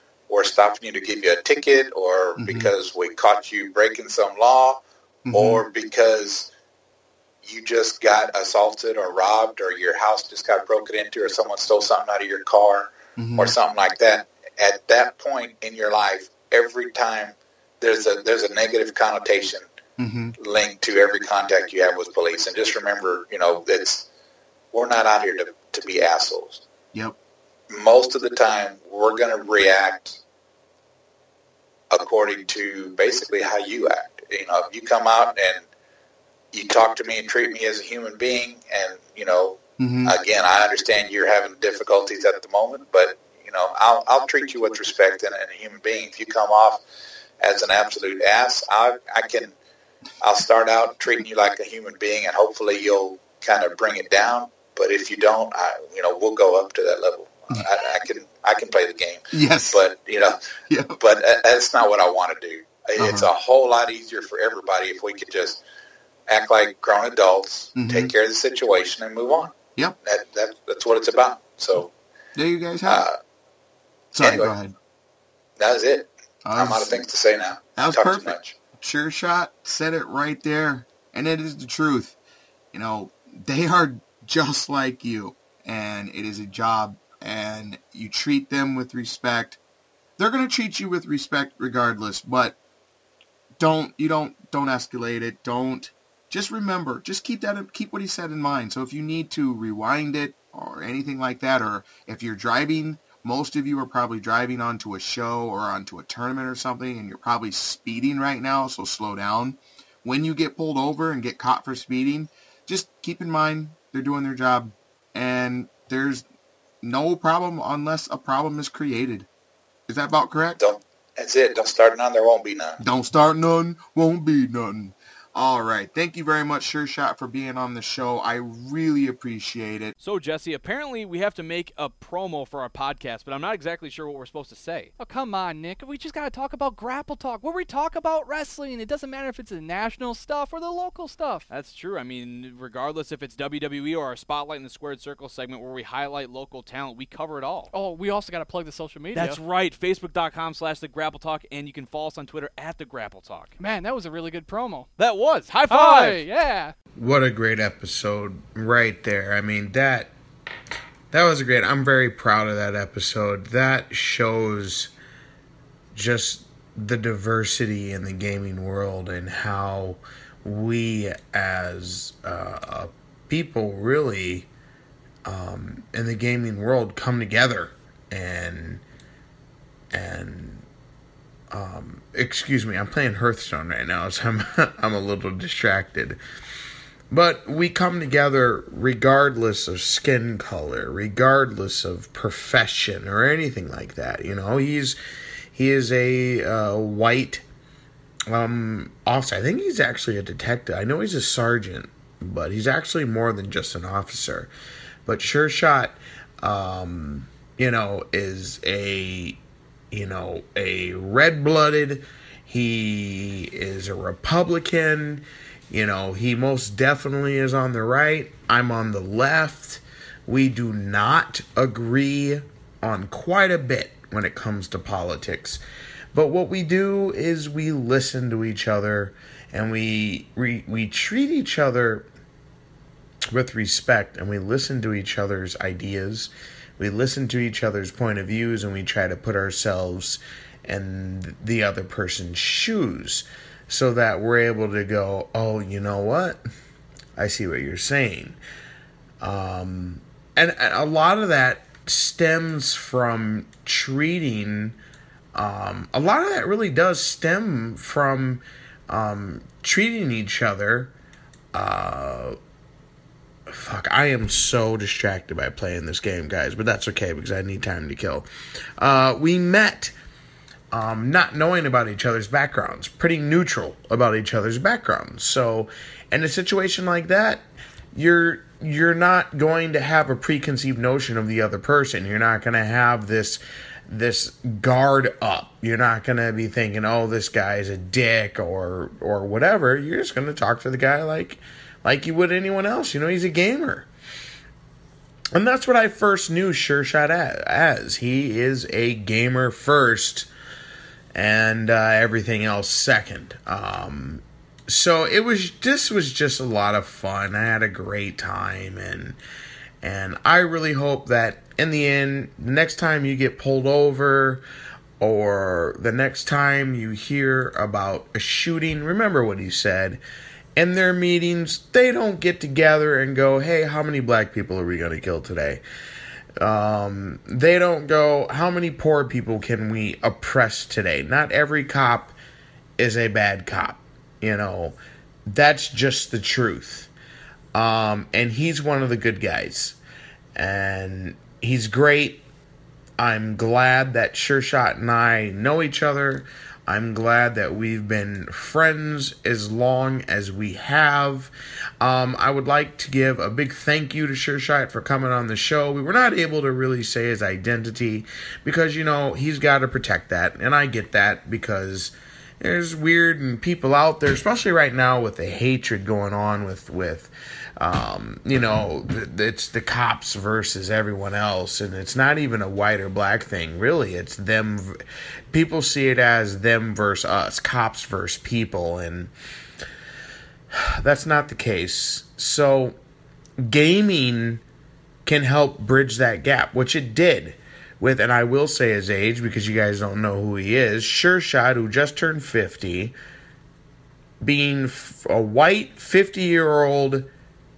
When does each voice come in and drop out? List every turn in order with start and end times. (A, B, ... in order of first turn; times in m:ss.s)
0:00.3-0:06.5 A
0:02.4-0:02.7 B
0:05.2-0:05.6 B
0:07.4-0:19.6 A
0:13.2-0:13.5 B
0:20.0-0:20.4 B
0:20.4-0:24.0 A
0:24.7-0:26.6 A
0:27.7-0:30.2 A
0:31.9-0:35.6 A
0:36.5-0:46.8 A
0:39.8-0:40.1 B
0:47.4-0:49.5 A
0:50.2-1:00.4 A
0:59.3-0:59.8 B
1:00.7-1:01.0 B
1:01.0-1:05.6 A
1:03.0-1:03.3 B
1:06.3-1:11.9 A
1:07.8-1:08.1 B
1:12.4-1:13.0 B
1:12.8-1:13.2 A
1:14.1-1:14.7 B
1:14.2-1:14.5 A
1:15.6-1:18.5 A
1:16.4-1:17.0 B
1:17.8-1:22.2 B
1:22.7-1:29.6 B
1:30.2-1:32.6 B
1:33.6-1:56.2 B
1:56.8-1:59.3 B
1:59.9-2:00.6 B
2:00.6-2:02.8 A
2:02.8-2:09.9 B
2:10.0-2:14.9 C
2:15.0-2:21.4 D
2:21.5-2:27.7 C
2:27.7-2:29.4 D
2:29.1-2:33.6 C
2:33.6-2:34.9 D
2:35.0-2:36.3 C
2:35.7-2:36.7 D
2:37.0-2:40.1 E
2:41.1-2:44.9 E
2:45.9-2:54.5 E
2:55.2-2:58.8 E
2:59.9-3:00.6 E
3:01.5-3:06.2 E
3:07.1-3:15.0 E
3:15.5-3:17.4 E
3:18.3-3:24.5 E
3:25.0-3:29.4 E
3:29.9-3:45.6 E
3:46.1-3:52.1 E
3:53.3-4:06.4 E
4:07.2-4:08.4 E
4:09.2-4:14.8 E
4:15.3-4:20.9 E
4:21.5-4:22.4 E
4:23.5-4:28.2 E
4:28.8-4:29.9 E
4:30.7-4:37.4 E
4:37.9-4:53.9 E
4:55.3-5:00.3 E
5:01.1-5:09.2 E
5:09.8-5:14.4 E
5:15.0-5:20.0 E
5:20.6-5:25.6 E
5:26.4-5:32.1 E
5:32.8-5:36.9 E
5:37.5-5:39.8 E
5:40.3-5:42.2 E
5:43.0-6:14.8 E
6:15.3-6:19.1 E
6:20.8-6:22.8 E
6:23.4-6:24.4 E
6:25.0-6:32.9 E
6:34.2-6:37.1 E